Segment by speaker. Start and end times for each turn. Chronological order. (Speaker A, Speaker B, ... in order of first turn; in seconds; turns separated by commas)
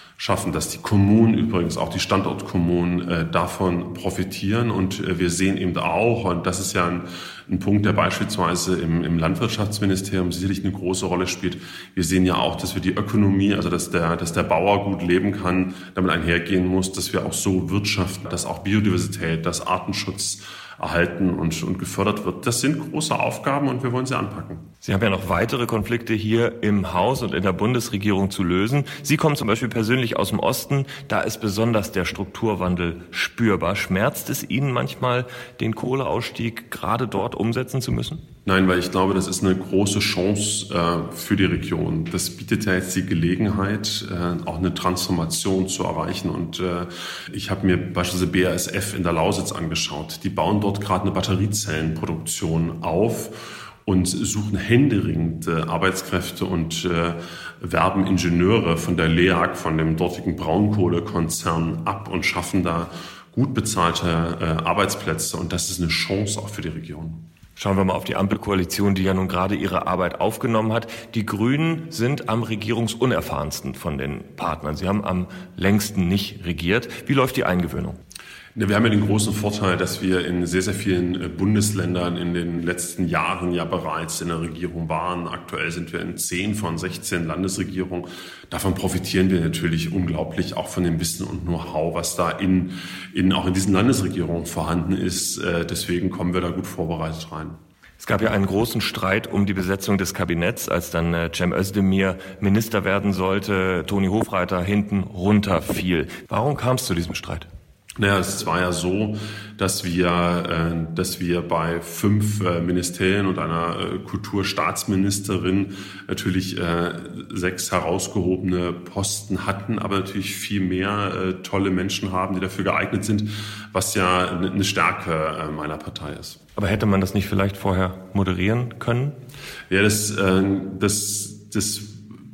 Speaker A: 0.2-24.7, Speaker B: 24.8-38.2, Speaker A: 38.5-67.3, Speaker B: 67.6-78.0, Speaker A: 78.6-97.6, Speaker B: 98.0-107.5, Speaker A: 108.0-126.4, Speaker B: 126.6-129.2, Speaker A: 129.7-132.0